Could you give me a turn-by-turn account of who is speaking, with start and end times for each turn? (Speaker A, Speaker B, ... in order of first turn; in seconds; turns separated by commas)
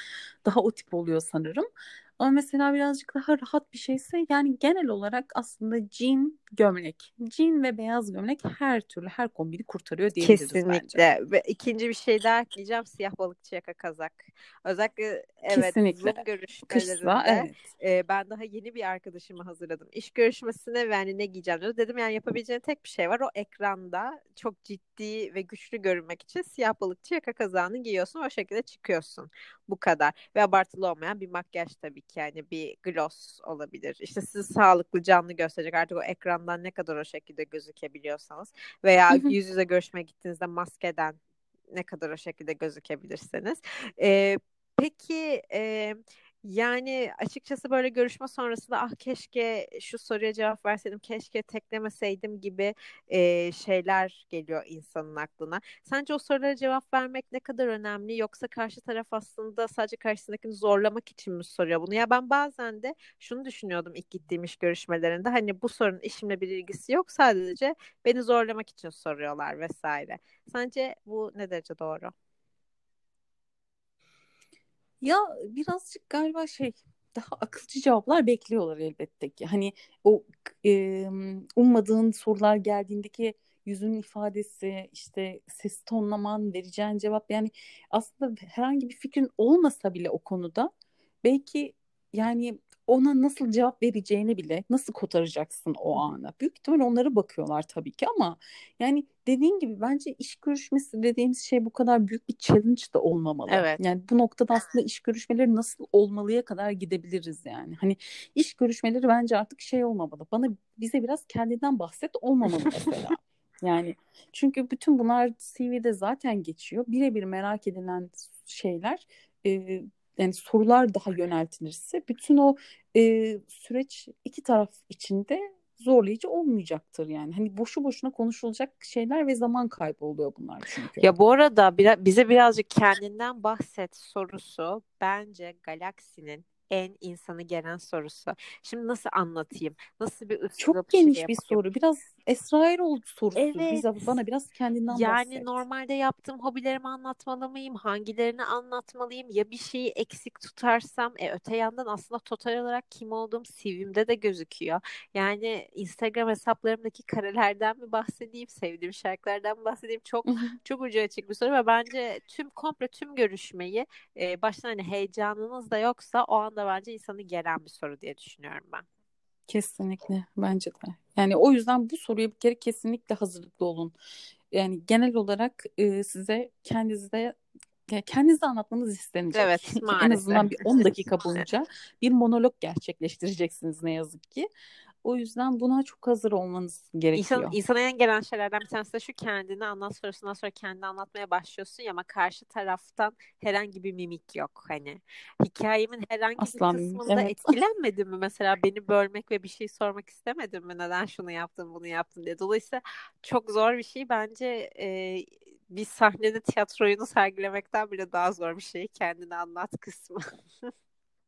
Speaker A: 0.4-1.7, Speaker A: 2.2-11.0, Speaker B: 10.2-41.2, Speaker A: 15.5-17.6, Speaker A: 39.1-39.4, Speaker B: 41.7-72.1, Speaker A: 75.0-90.7, Speaker A: 91.2-131.1, Speaker B: 103.5-103.8, Speaker B: 131.0-141.6, Speaker A: 140.6-145.5, Speaker B: 143.3-144.1, Speaker B: 144.9-168.8, Speaker A: 160.2-160.5, Speaker A: 169.5-173.9, Speaker A: 174.5-184.5, Speaker B: 179.3-180.6, Speaker A: 185.0-187.6, Speaker B: 187.1-210.2, Speaker A: 196.4-197.5